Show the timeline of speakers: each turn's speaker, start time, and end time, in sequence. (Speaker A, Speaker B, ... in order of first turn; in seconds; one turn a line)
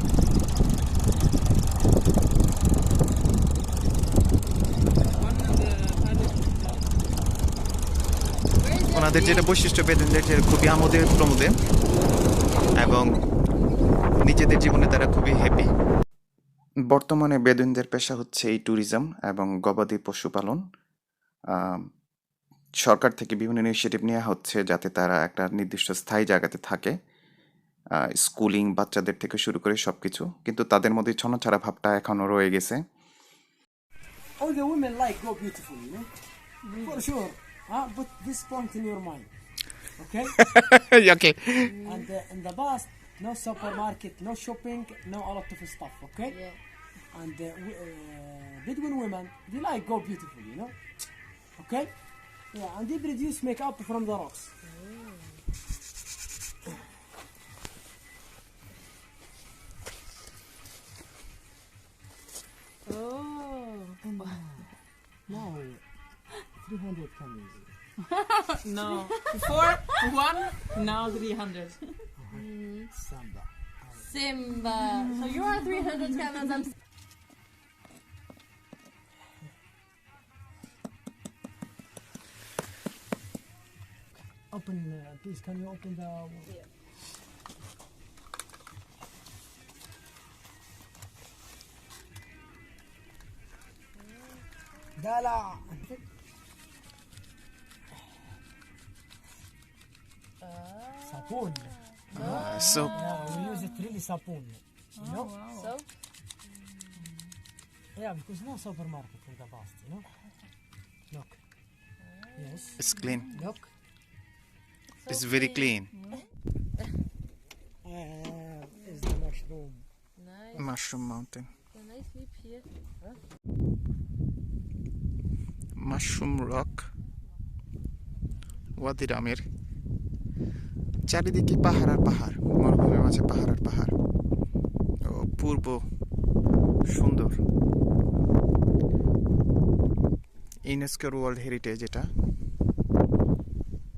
Speaker A: 5.2-6.9
Speaker B: 8.6-9.5
Speaker C: 8.9-11.6
Speaker B: 11.7-13.0
Speaker C: 12.7-13.2
Speaker C: 14.2-15.7
Speaker C: 16.9-20.6
Speaker C: 21.5-21.9
Speaker C: 22.8-26.9
Speaker C: 28.1-32.8
Speaker D: 34.4-36.1
Speaker B: 36.6-37.0
Speaker D: 36.8-39.3
Speaker D: 39.9-40.4
Speaker C: 40.5-41.7
Speaker B: 41.6-42.1
Speaker D: 41.8-46.4
Speaker B: 46.3-46.6
Speaker D: 47.1-50.8
Speaker D: 51.5-51.9
Speaker D: 52.5-54.5
Speaker B: 54.6-55.4
Speaker B: 62.9-64.1
Speaker D: 64.2-64.7
Speaker D: 65.3-65.8
Speaker D: 66.6-67.7
Speaker A: 68.3-72.0
Speaker D: 72.2-74.1
Speaker B: 72.3-72.9
Speaker B: 74.0-76.7
Speaker A: 75.4-75.7
Speaker D: 84.4-86.5
Speaker B: 94.0-94.5
Speaker D: 95.0-96.0
Speaker B: 100.4-103.2
Speaker D: 101.0-105.3
Speaker C: 102.1-103.0
Speaker A: 102.9-103.7
Speaker A: 105.0-105.7
Speaker B: 105.5-105.9
Speaker B: 106.7-107.1
Speaker D: 108.0-110.1
Speaker D: 111.1-111.4
Speaker B: 112.0-113.0
Speaker D: 112.4-113.7
Speaker C: 112.8-113.4
Speaker B: 115.0-115.8
Speaker C: 115.1-115.9
Speaker D: 117.8-119.8
Speaker B: 120.2-120.7
Speaker C: 120.6-121.5
Speaker B: 121.7-122.7
Speaker C: 125.8-126.9
Speaker C: 128.8-129.4
Speaker C: 131.1-133.9
Speaker C: 135.1-135.8
Speaker C: 136.9-137.3
Speaker C: 140.7-142.1